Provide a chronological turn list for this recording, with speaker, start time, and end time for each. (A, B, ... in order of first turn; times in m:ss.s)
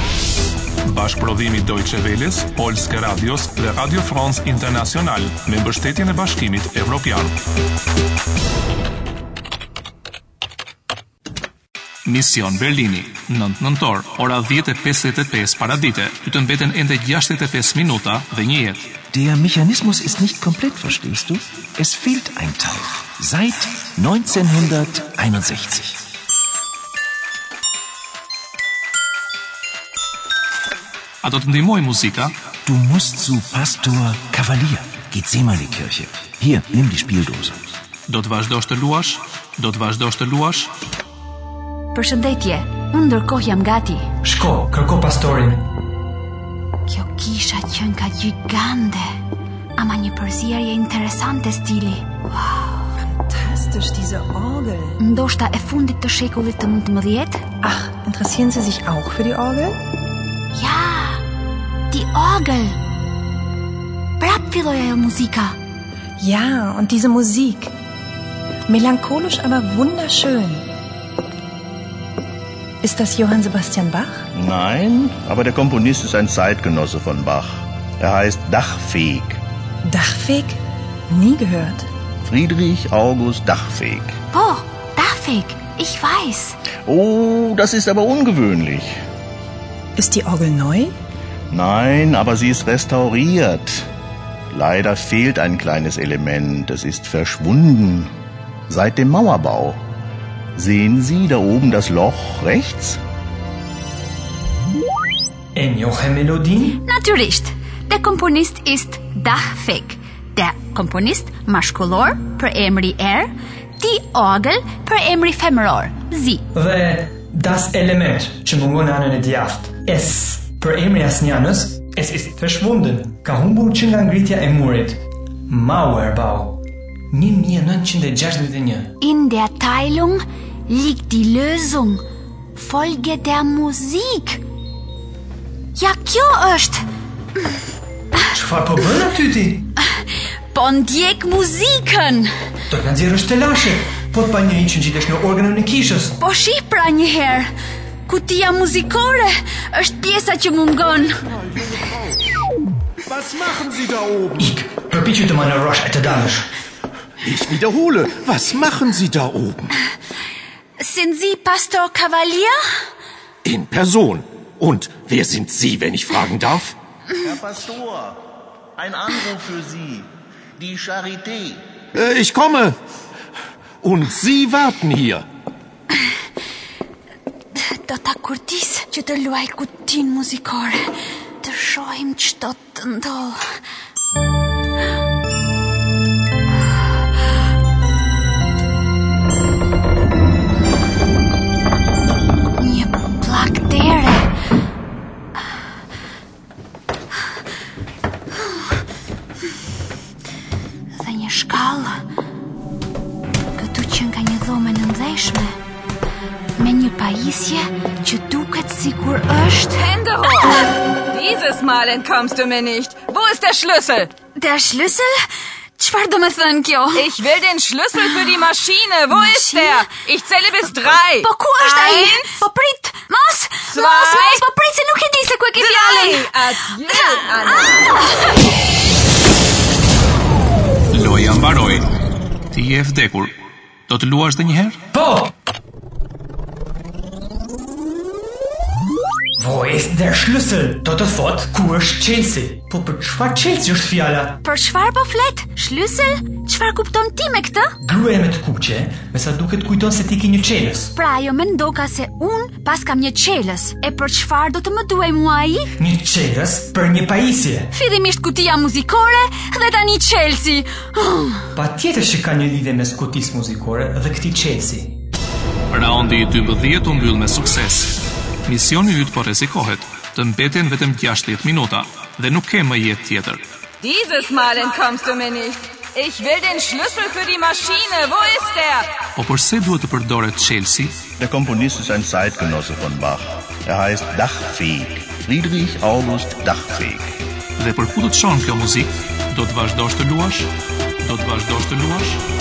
0:00.8-0:07.3 A
0:12.0-0:18.9 A
0:19.1-0:26.0 B
0:31.2-0:32.3 A
0:32.7-0:37.6 B
0:38.1-0:40.7 A
0:41.9-0:44.1 C
0:44.2-0:45.6 D
0:46.9-0:49.1 C
0:49.8-0:52.1 C
0:53.1-0:55.0 E
0:55.0-0:57.4 C
0:57.6-0:59.8 E
1:00.5-1:01.2 C
1:01.9-1:02.8 C
1:04.2-1:05.6 C
1:06.2-1:07.7 E
1:08.7-1:10.7 E
1:12.8-1:14.3 E
1:14.3-1:19.4 F
1:19.8-1:21.9 E
1:22.2-1:24.1 F
1:24.3-1:26.6 C
1:26.9-1:29.0 F
1:30.0-1:31.0 E
1:31.5-1:33.9 F
1:34.5-1:38.1 F
1:38.7-1:39.8 F
1:40.6-1:43.0 F
1:45.6-1:46.8 D
1:46.8-1:56.4 C
1:56.5-2:05.0 D
2:05.5-2:06.6 D
2:07.1-2:08.9 D
2:09.0-2:12.0 C
2:12.6-2:14.4 C
2:15.8-2:16.8 C
2:18.3-2:19.7 D
2:20.5-2:22.3 C
2:22.7-2:26.2 D
2:26.2-2:27.5 C
2:28.1-2:31.2 C
2:33.1-2:34.4 G
2:34.4-2:36.5 D
2:37.2-2:39.7 G
2:40.8-2:42.6 C
2:43.4-2:46.8 G
2:47.2-2:48.2 F
2:48.8-2:51.6 F
2:52.0-2:52.8 G
2:53.8-2:55.3 G
2:57.6-3:00.9 C
3:01.4-3:03.4 C
3:12.6-3:14.3 C
3:21.0-3:22.0 C
3:23.5-3:25.6 C
3:26.6-3:29.9 C
3:29.8-3:34.1 H
3:34.4-3:35.2 C
3:35.8-3:37.1 C
3:37.0-3:42.4 H
3:39.1-3:39.9 C
3:41.1-3:46.3 C
3:43.7-3:44.4 H
3:45.6-3:48.1 H
3:50.9-3:51.9 A
3:52.5-3:53.3 A
3:53.9-3:54.8 A
3:54.9-3:55.3 D
3:59.4-4:04.4 D
4:04.4-4:07.7 C
4:07.8-4:10.9 D
4:10.9-4:15.7 C
4:15.8-4:17.7 D
4:17.7-4:21.5 C
4:21.6-4:25.0 D
4:25.7-4:33.4 A
4:33.8-4:38.9 H
4:39.2-4:41.0 A
4:41.2-4:47.2 F
4:47.6-4:50.5 A
4:51.0-4:52.2 A